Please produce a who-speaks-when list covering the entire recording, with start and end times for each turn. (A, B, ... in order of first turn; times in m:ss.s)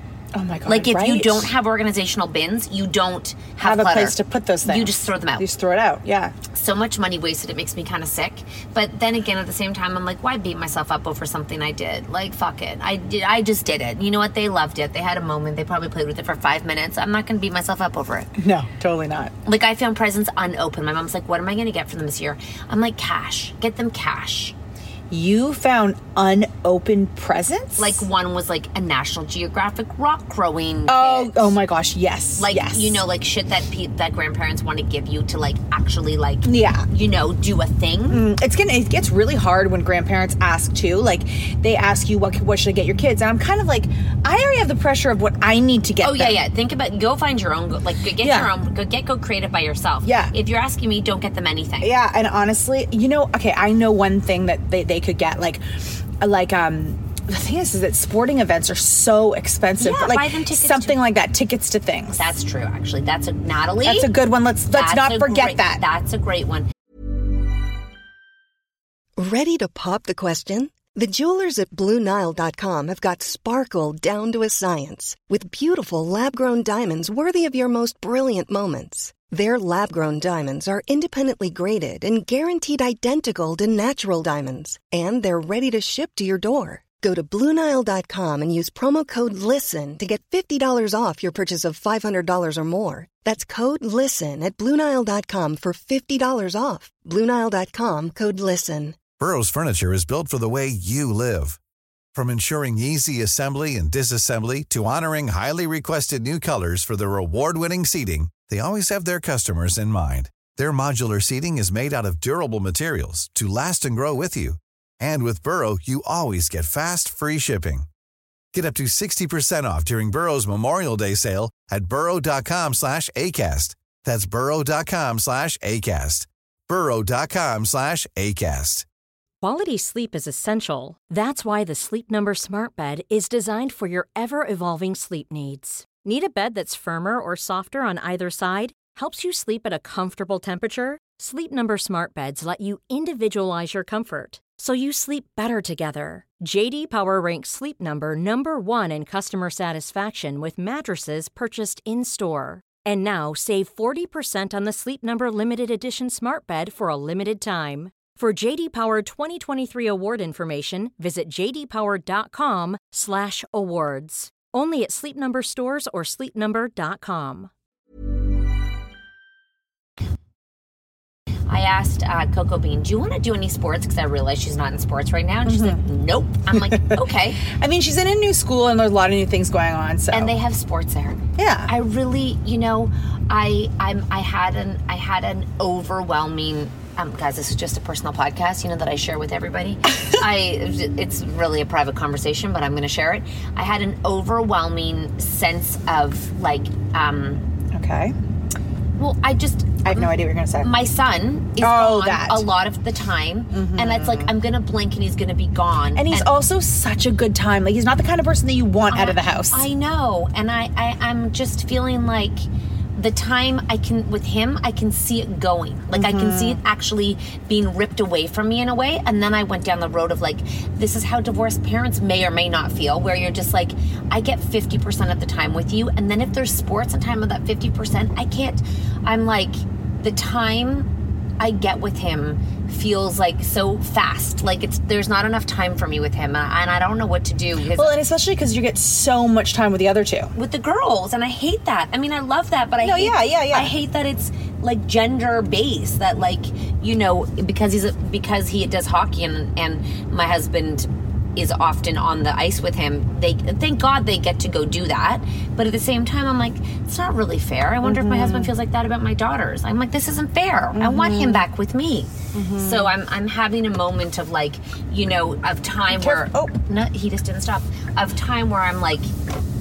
0:00.4-0:01.5 A
0:00.7-0:05.5 B
0:03.6-0:06.3 A
0:06.5-0:18.3 B
0:18.4-0:19.3 A
0:19.4-0:24.6 B
0:25.1-0:28.0 A
0:27.8-0:31.6 B
0:30.9-0:33.0 A
0:32.4-0:38.2 B
0:36.4-0:36.8 A
0:38.1-0:46.4 A
0:46.0-0:51.9 B
0:48.2-0:48.5 A
0:50.0-0:50.3 A
0:51.8-0:55.6 A
0:56.2-1:02.2 A
0:59.8-1:01.0 B
1:02.1-1:04.1 B
1:03.8-1:05.8 A
1:04.7-1:06.7 B
1:09.2-1:39.0 C
1:39.2-1:41.6 D
1:42.1-1:57.9 D
1:58.5-2:08.8 D
2:09.4-2:47.5 E
2:51.5-2:57.4 B
2:55.4-2:55.8 A
2:56.6-3:00.4 A
3:00.1-3:17.4 B
3:01.4-3:01.7 A
3:17.7-3:18.2 A
3:19.0-3:26.3 B
3:19.8-3:20.7 A
3:21.6-3:22.5 A
3:23.5-3:24.3 A
3:26.0-3:29.7 A
3:28.9-3:50.9 B
3:35.9-3:36.6 A
3:51.4-3:58.0 B
3:57.8-4:00.3 A
4:00.4-4:29.1 B
4:02.8-4:03.7 A
4:17.8-4:18.5 A
4:20.8-4:21.5 A
4:22.3-4:22.9 A
4:25.9-4:26.6 A